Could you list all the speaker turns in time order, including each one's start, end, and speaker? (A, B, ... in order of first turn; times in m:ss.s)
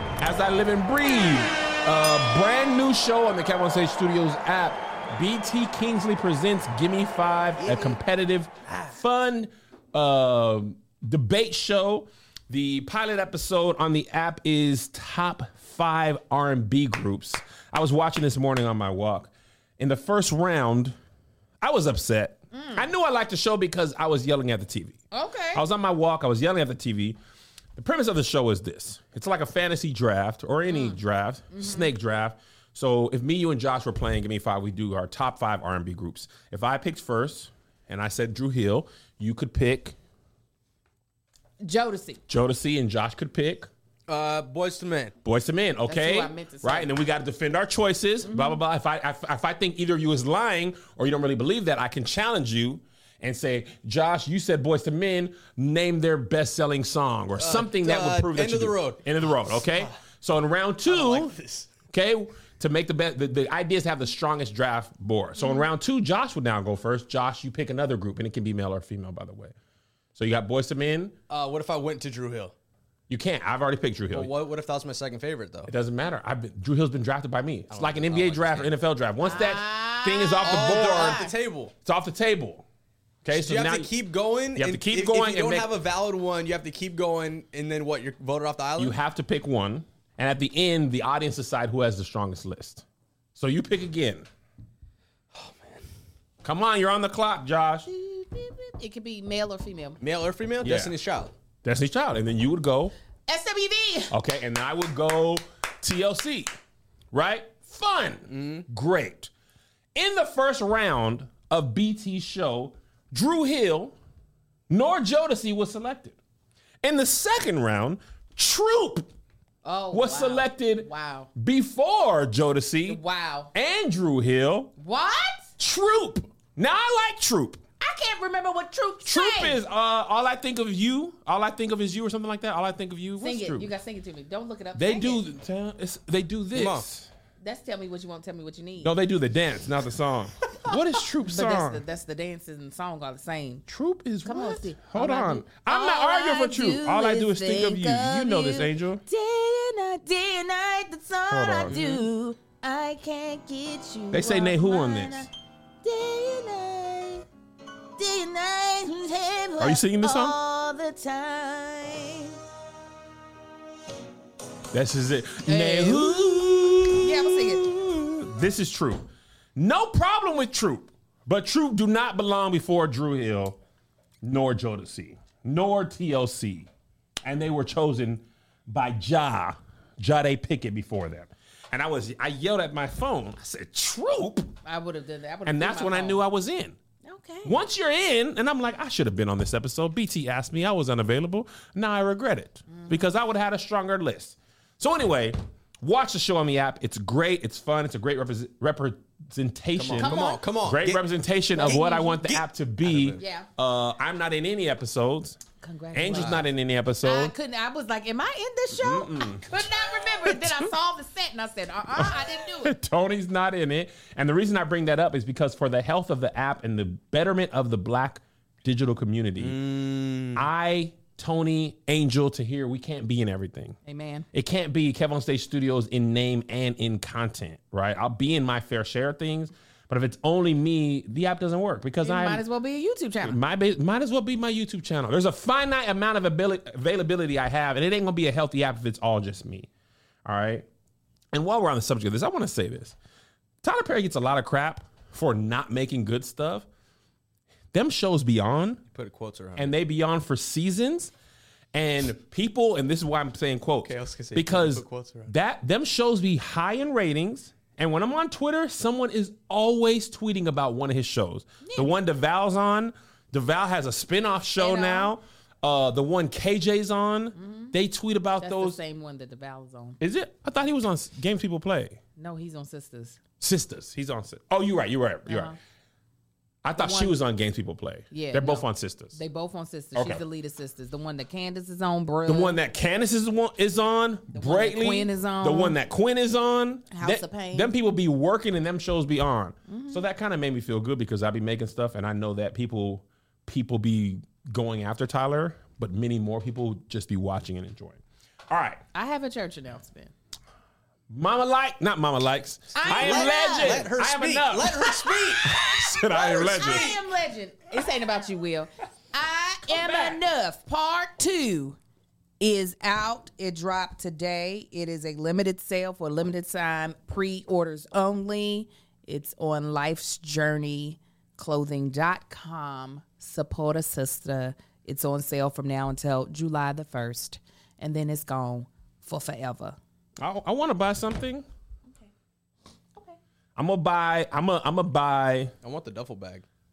0:00.2-0:21.0 A
0:07.6-0:07.9 B
0:21.6-0:25.0 A
0:22.5-0:22.8 C
0:25.1-0:25.6 C
0:25.5-0:27.2 A
0:27.7-0:40.0 A
0:30.7-0:31.0 C
0:31.5-0:31.9 C
0:41.6-0:42.2 C
0:42.3-0:43.7 A
0:44.1-0:45.1 B
0:45.2-1:01.3 A
0:45.8-0:46.9 C
0:48.2-0:48.6 C
0:57.4-0:59.9 B
1:00.8-1:01.7 B
1:01.9-1:09.5 A
1:05.4-1:05.6 C
1:10.2-1:11.2 A
1:11.3-1:12.5 B
1:13.1-1:14.3 A
1:14.1-1:15.7 B
1:15.7-1:21.2 A
1:17.7-1:18.7 B
1:19.2-1:21.3 C
1:20.4-1:21.7 B
1:21.8-1:22.6 A
1:23.2-1:23.9 A
1:23.3-1:29.0 B
1:24.6-1:25.7 A
1:28.8-1:32.8 A
1:33.4-1:34.3 A
1:35.3-1:35.8 B
1:36.4-1:37.9 A
1:37.9-1:40.0 C
1:40.0-1:41.3 B
1:40.6-1:40.9 A
1:41.6-1:42.9 A
1:43.3-1:44.1 C
1:44.1-1:46.5 A
1:47.1-1:49.3 A
1:48.3-1:48.6 B
1:49.9-1:53.9 A
1:54.7-1:56.2 A
1:56.8-1:59.1 A
1:59.6-2:01.3 C
1:59.9-2:03.0 A
2:02.8-2:03.5 C
2:03.5-2:04.7 A
2:04.8-2:05.5 C
2:05.6-2:07.6 A
2:07.8-2:09.6 C
2:09.0-2:13.7 A
2:13.2-2:15.3 C
2:14.8-2:17.1 A
2:16.5-2:16.9 B
2:17.4-2:18.9 C
2:18.8-2:21.8 A
2:21.2-2:23.6 C
2:23.7-2:29.0 A
2:24.2-2:35.3 C
2:31.3-2:31.9 A
2:31.7-2:32.0 B
2:34.1-2:35.3 A
2:35.8-2:37.2 C
2:38.0-2:42.4 C
2:39.6-2:40.3 A
2:44.7-2:53.6 A
2:45.4-2:47.7 C
2:54.2-2:56.7 A
2:57.2-3:04.5 A
3:04.6-3:06.2 C
3:05.4-3:06.8 A
3:07.0-3:07.6 C
3:07.4-3:25.4 A
3:12.7-3:13.0 C
3:19.7-3:21.0 B
3:20.0-3:20.4 C
3:21.6-3:23.2 B
3:21.7-3:22.0 C
3:23.2-3:23.5 C
3:25.6-3:26.5 C
3:25.9-3:27.3 A
3:26.1-3:26.4 B
3:27.0-3:32.7 C
3:28.8-3:29.6 A
3:30.2-3:30.7 A
3:32.0-3:39.6 A
3:39.4-3:40.4 B
3:40.4-3:43.8 A
3:43.8-3:44.2 C
3:44.3-3:52.4 A
3:52.0-3:53.4 C
3:53.2-3:59.7 A
4:00.2-4:00.6 A
4:01.3-4:03.0 A
4:03.6-4:06.7 A
4:07.7-4:08.8 A
4:08.9-4:09.7 B
4:09.6-4:11.1 A
4:11.7-4:28.8 A
4:13.8-4:15.3 B
4:21.6-4:21.9 C
4:24.6-4:25.1 C
4:27.4-4:27.7 C
4:28.4-4:30.0 C
4:30.0-4:32.0 A
4:32.2-4:33.2 C
4:33.4-4:35.5 A
4:35.3-4:35.6 C
4:36.6-4:39.2 A
4:36.8-4:37.2 C
4:38.1-4:42.6 C
4:39.9-4:40.2 A
4:42.2-4:58.8 A
4:44.3-4:45.8 C
4:46.9-4:47.7 C
4:49.7-4:50.0 C
4:58.9-5:00.1 C
5:01.1-5:06.9 A
5:02.7-5:03.9 C
5:02.8-5:05.5 B
5:05.5-5:11.8 C
5:06.0-5:07.0 B
5:09.7-5:10.2 A
5:12.4-5:29.8 C
5:30.2-5:31.4 A
5:33.6-5:35.5 A
5:35.6-5:36.4 B